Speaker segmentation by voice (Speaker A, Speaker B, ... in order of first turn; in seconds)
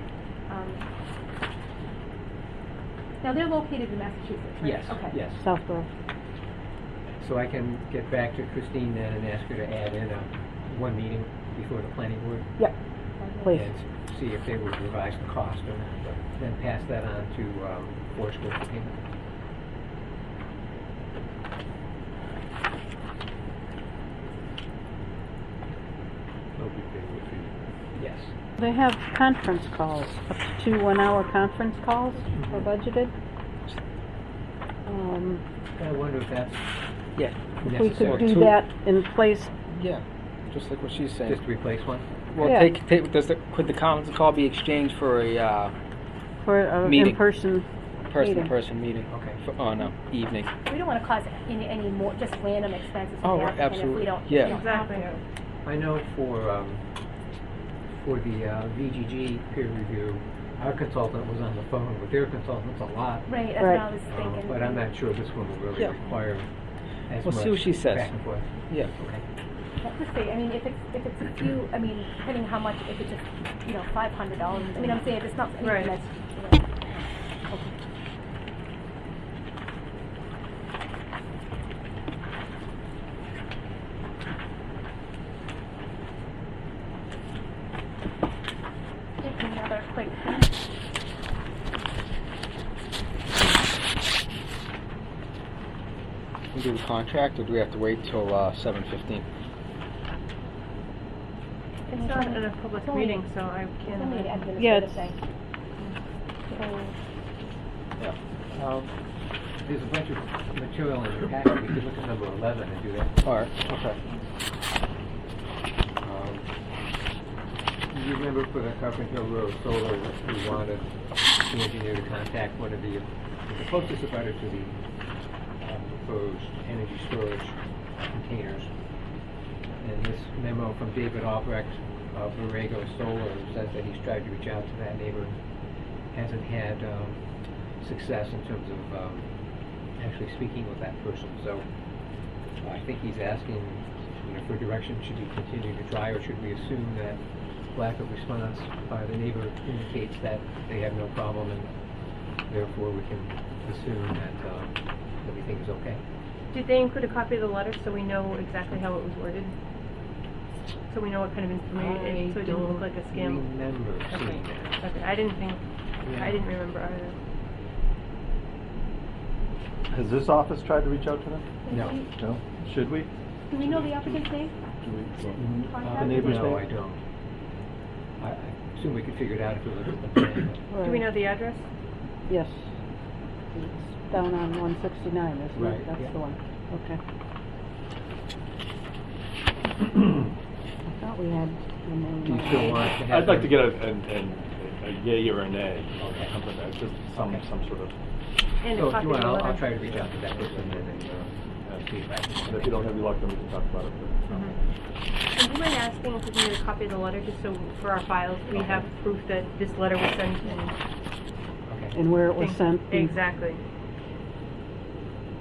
Speaker A: 0.5-0.8, 3.2-5.2, 13.2-13.5, 50.6-55.2, 63.2-64.9, 69.8-77.7, 89.2-90.5, 101.9-103.2, 103.8-105.2, 171.6-172.1, 173.5-174.5, 175.4-176.4
Speaker B: 4.6-5.4, 7.2-12.5, 13.5-19.1, 27.9-28.3, 35.8-36.6, 37.6-38.4, 41.2-42.1, 49.1-49.4, 55.6-56.8, 57.9-63.3, 64.0-66.5, 67.1-69.2, 109.6-113.2, 116.0-116.5, 117.9-120.9, 121.4-124.8, 125.6-128.7, 129.8-135.4, 136.1-137.2, 137.8-139.3, 140.0-141.6, 142.6-147.2, 147.7-151.7, 152.5-156.0, 161.7-164.8, 166.0-166.4, 171.7-172.0, 175.4-177.0, 178.2-180.6, 185.5-186.1, 192.2-193.6, 196.0-196.3, 198.7-203.0, 208.5-208.9, 211.7-212.0
Speaker C: 5.4-5.9, 13.4-13.7, 28.6-33.1, 34.9-35.4, 37.6-39.5, 42.4-42.7, 46.4-47.7, 48.2-48.5, 63.6-63.9, 104.6-105.1, 180.7-181.1, 182.3-182.7, 183.5-187.0, 190.8-193.0, 211.9-213.1
Speaker D: 26.6-27.4, 113.7-114.0, 169.9-171.5, 172.1-174.2, 174.8-176.7, 193.0-197.9, 199.8-201.9, 202.4-204.5
Speaker E: 37.2-37.4, 38.1-38.5, 39.7-41.4, 42.3-45.7, 46.8-47.2, 48.1-50.5, 53.2-54.6, 67.2-68.2, 96.5-99.2, 108.0-108.9, 113.2-113.6
Speaker F: 54.4-55.2, 75.6-76.0, 101.9-104.5, 156.5-159.5, 160.9-163.5, 164.1-167.2, 180.8-181.7, 198.6-199.8, 204.3-204.5, 205.3-210.8, 212.3-213.6